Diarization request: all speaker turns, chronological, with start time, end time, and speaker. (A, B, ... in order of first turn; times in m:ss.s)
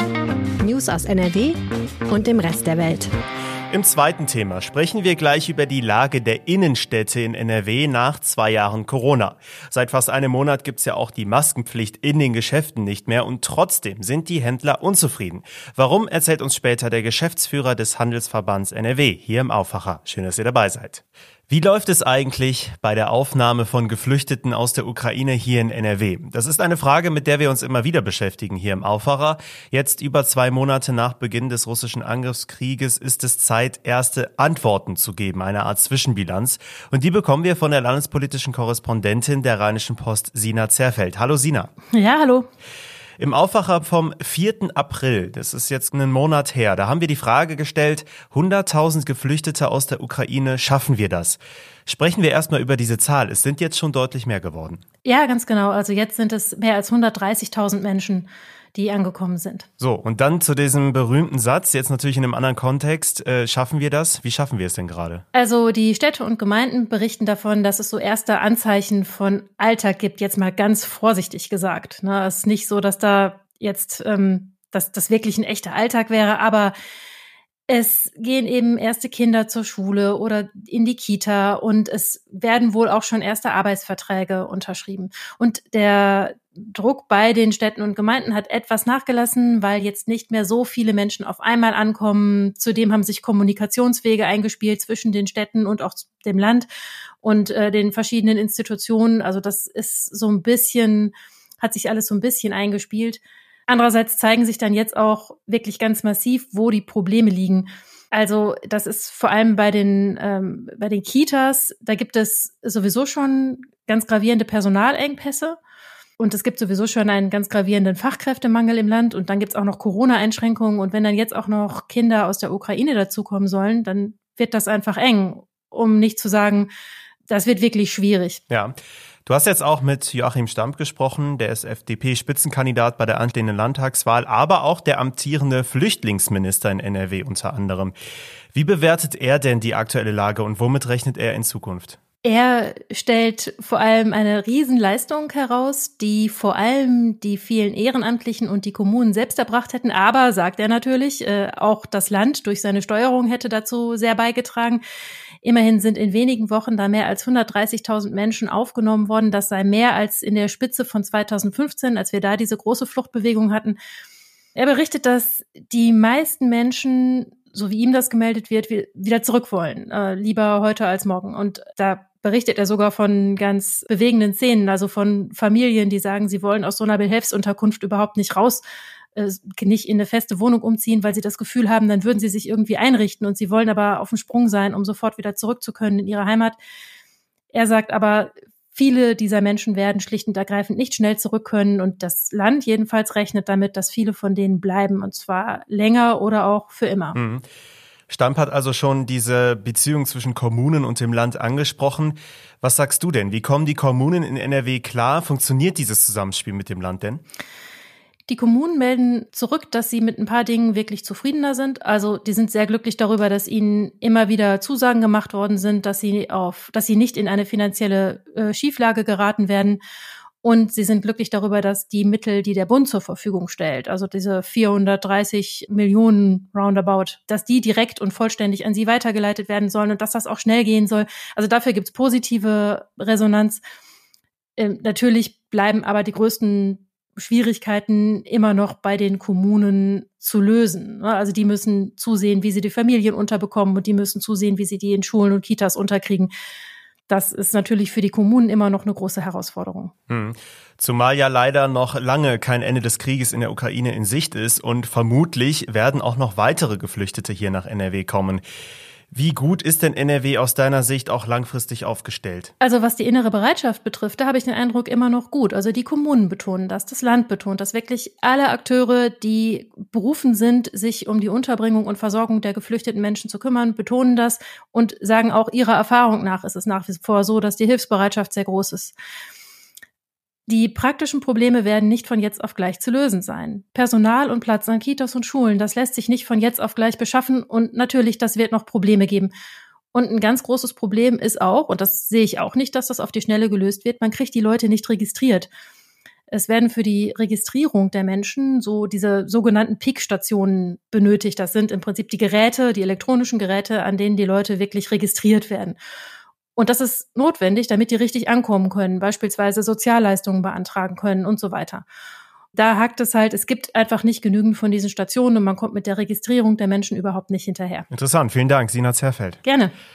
0:00.6-0:01.6 A
0:02.1-0:03.1 A
0:03.7-0:41.7 B
0:41.9-0:42.5 C
0:43.2-0:54.8 B
0:55.0-0:59.7 C
0:59.8-1:05.2 B
1:05.3-1:16.7 C
1:17.7-1:36.7 C
1:37.2-1:55.6 C
1:56.2-2:06.7 C
2:07.3-2:08.4 C
2:08.5-2:08.7 B
2:09.2-2:17.9 B
2:18.5-2:22.0 B
2:22.2-2:34.8 C
2:35.4-2:43.8 C
2:44.5-2:58.6 C
2:59.2-3:06.6 C
3:07.5-3:17.2 C
3:17.1-3:17.4 B
3:18.1-3:27.2 B
3:28.3-3:39.8 C
3:40.4-3:53.6 C
3:54.6-4:06.3 C
4:07.1-4:09.9 C
4:10.1-4:18.4 B
4:19.1-4:22.5 B
4:22.6-4:38.9 C
4:40.5-4:49.3 C
4:49.9-4:55.5 C
4:56.3-5:05.8 C
5:06.6-5:11.8 C
5:12.5-5:17.9 C
5:17.9-5:19.4 B
5:19.4-5:19.7 C